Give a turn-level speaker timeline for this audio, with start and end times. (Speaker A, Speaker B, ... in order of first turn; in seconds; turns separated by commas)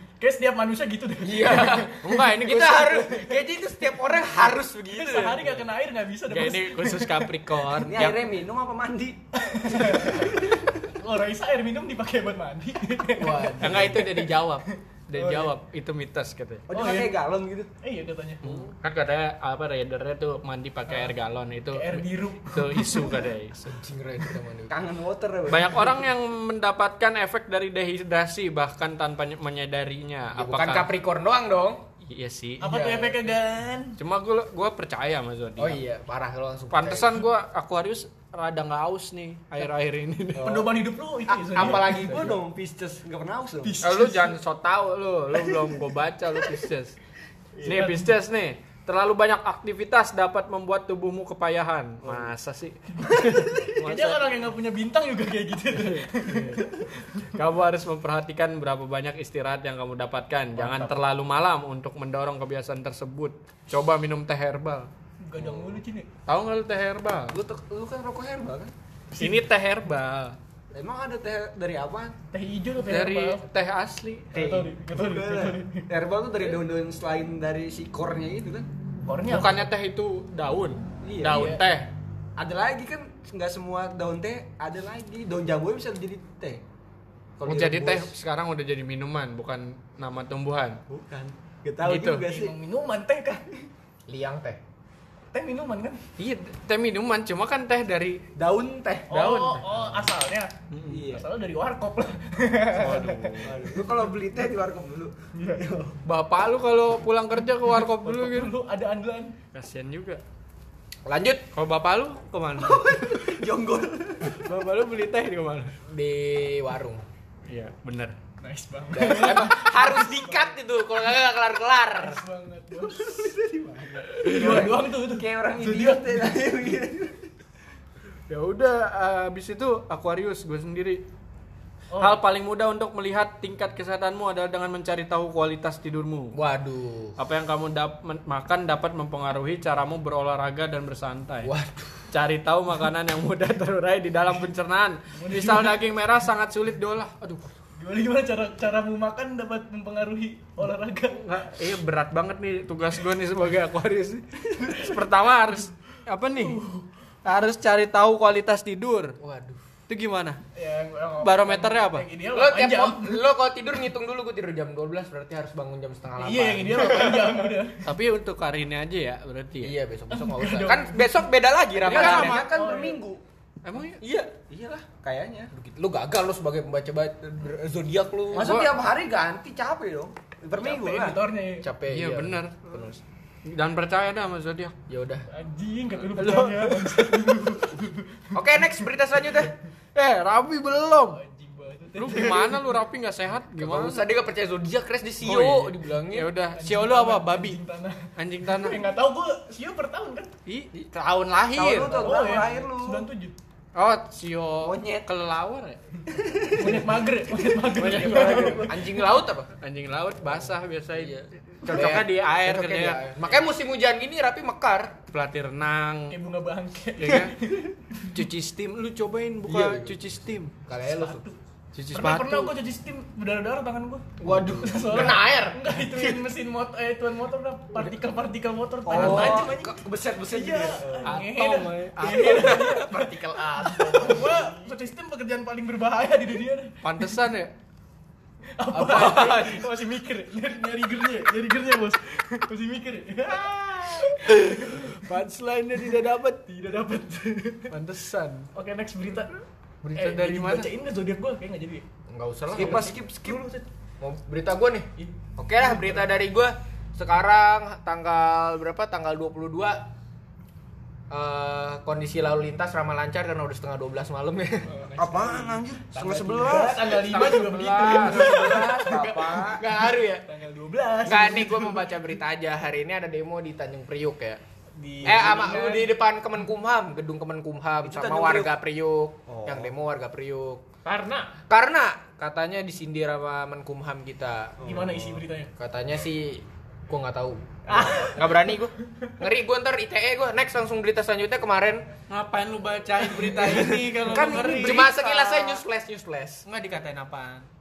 Speaker A: 0.2-1.9, Speaker B: 1.2-5.4, Speaker C: 2.0-3.3, Speaker A: 4.9-7.3, Speaker C: 6.3-8.2, Speaker D: 7.8-9.2, Speaker A: 9.4-15.5, Speaker D: 9.8-10.7, Speaker B: 13.2-14.1, Speaker C: 13.6-16.6, Speaker D: 16.7-17.7, Speaker A: 16.7-17.1, Speaker A: 17.8-18.5, Speaker C: 18.4-23.5, Speaker A: 21.7-23.3, Speaker B: 23.5-24.8, Speaker D: 24.7-26.0, Speaker C: 25.5-30.9, Speaker B: 30.4-31.8, Speaker C: 32.0-32.7, Speaker A: 32.6-34.0, Speaker B: 32.6-33.2, Speaker C: 34.0-35.8, Speaker B: 35.6-37.2, Speaker C: 36.7-40.6, Speaker D: 40.3-40.8, Speaker A: 40.3-42.3, Speaker B: 41.3-42.4, Speaker D: 41.6-43.8, Speaker A: 43.6-44.4, Speaker C: 43.8-47.0, Speaker D: 47.5-47.9, Speaker A: 47.6-48.1, Speaker C: 47.6-54.3, Speaker D: 52.0-52.3, Speaker A: 53.1-57.0, Speaker C: 55.7-56.7, Speaker C: 57.3-64.9, Speaker A: 60.5-61.0, Speaker A: 65.2-66.1, Speaker C: 66.2-67.4, Speaker D: 67.3-68.7, Speaker C: 69.2-70.4, Speaker D: 70.7-72.2, Speaker A: 72.3-73.4, Speaker C: 72.8-74.3, Speaker A: 74.3-75.8, Speaker D: 74.3-78.7, Speaker A: 79.0-79.7, Speaker C: 79.3-81.9, Speaker D: 81.0-81.4, Speaker A: 81.3-81.6, Speaker D: 82.4-86.6, Speaker C: 87.4-90.8, Speaker D: 87.4-88.1, Speaker D: 90.9-92.5, Speaker C: 91.8-92.2, Speaker A: 92.2-93.5, Speaker B: 94.1-94.6, Speaker A: 95.3-96.0, Speaker C: 96.2-98.2, Speaker D: 98.3-99.1, Speaker C: 99.1-100.1, Speaker A: 99.1-100.5, Speaker C: 100.7-101.1, Speaker D: 100.9-101.3, Speaker A: 101.0-103.3, Speaker C: 102.8-103.7, Speaker D: 103.4-106.0, Speaker C: 106.0-108.5, Speaker A: 107.8-109.3, Speaker C: 109.5-110.2, Speaker B: 111.0-111.4, Speaker C: 111.5-113.4, Speaker D: 112.6-114.4, Speaker C: 114.2-115.7, Speaker B: 115.9-117.0, Speaker C: 117.5-118.2, Speaker A: 118.4-120.5, Speaker B: 118.9-122.2, Speaker A: 121.9-123.2, Speaker D: 122.9-127.3, Speaker C: 124.1-124.7, Speaker A: 124.2-126.2, Speaker C: 128.3-131.0, Speaker A: 131.9-132.2, Speaker C: 132.0-136.3, Speaker B: 136.3-137.2, Speaker C: 137.2-141.5, Speaker B: 141.4-142.1, Speaker C: 142.1-147.5, Speaker A: 145.2-145.8, Speaker A: 147.8-151.2, Speaker C: 151.1-156.6, Speaker A: 156.3-156.8, Speaker C: 157.2-159.2, Speaker B: 159.2-159.6, Speaker C: 159.9-160.4, Speaker A: 160.6-163.2, Speaker C: 161.2-162.1, Speaker B: 162.3-167.4, Speaker A: 166.2-167.8, Speaker C: 167.8-169.7, Speaker B: 169.6-172.4, Speaker A: 170.1-171.2, Speaker D: 171.7-173.2, Speaker C: 171.8-172.5, Speaker A: 172.4-173.0, Speaker C: 173.6-174.0, Speaker B: 174.0-174.3, Speaker D: 174.5-175.5, Speaker B: 175.5-178.6, Speaker D: 178.3-181.2, Speaker C: 178.4-178.7, Speaker A: 180.6-181.7, Speaker B: 181.6-183.0, Speaker C: 181.9-182.6, Speaker C: 183.4-184.7, Speaker B: 184.9-185.2, Speaker A: 185.3-188.1, Speaker C: 186.1-187.5, Speaker B: 188.3-189.5, Speaker C: 189.9-191.2, Speaker A: 191.1-192.7, Speaker C: 191.9-194.1, Speaker B: 193.6-196.3, Speaker C: 195.2-197.6, Speaker A: 196.5-200.3, Speaker C: 198.2-198.8, Speaker C: 200.4-202.1, Speaker D: 201.5-203.1, Speaker A: 201.8-203.3, Speaker C: 203.7-205.8, Speaker D: 204.6-205.1, Speaker D: 206.1-206.9, Speaker A: 206.6-208.9, Speaker D: 207.8-208.7, Speaker C: 207.8-208.6, Speaker B: 207.9-209.5, Speaker C: 209.6-213.2, Speaker B: 211.6-215.0, Speaker D: 211.7-212.0, Speaker C: 215.1-216.2, Speaker A: 216.1-218.1, Speaker C: 217.0-217.3, Speaker C: 218.1-220.5, Speaker D: 219.5-220.0, Speaker B: 220.7-221.2, Speaker A: 220.9-221.3, Speaker C: 221.7-222.5, Speaker A: 221.9-233.1, Speaker B: 224.2-225.7, Speaker D: 224.3-224.7, Speaker D: 228.8-231.2, Speaker B: 228.9-229.4, Speaker C: 229.0-229.3, Speaker C: 231.0-232.7, Speaker B: 232.2-234.7, Speaker A: 233.7-236.7, Speaker C: 236.8-237.5, Speaker A: 238.6-245.0, Speaker C: 238.7-239.7, Speaker C: 244.0-246.4, Speaker A: 245.8-247.7, Speaker C: 247.7-248.5, Speaker A: 248.5-249.4, Speaker C: 249.8-250.7, Speaker A: 249.9-251.8, Speaker B: 252.1-252.9, Speaker D: 252.5-253.5, Speaker A: 252.6-253.7, Speaker B: 254.0-259.8, Speaker A: 255.0-256.0, Speaker B: 261.1-264.7, Speaker A: 264.6-271.9, Speaker D: 264.9-266.9, Speaker C: 266.9-268.8, Speaker D: 268.0-269.6, Speaker B: 268.2-270.2, Speaker B: 271.0-274.4, Speaker A: 274.8-275.9, Speaker B: 275.0-280.6, Speaker D: 277.8-278.5, Speaker D: 279.3-279.7, Speaker A: 280.8-281.3, Speaker B: 281.5-284.6, Speaker D: 284.6-285.2, Speaker A: 284.6-285.5, Speaker B: 285.6-291.9, Speaker D: 287.7-288.1, Speaker A: 287.7-288.5, Speaker C: 292.1-294.9, Speaker A: 293.1-294.4, Speaker D: 293.9-295.6, Speaker B: 294.5-296.4, Speaker C: 296.4-297.5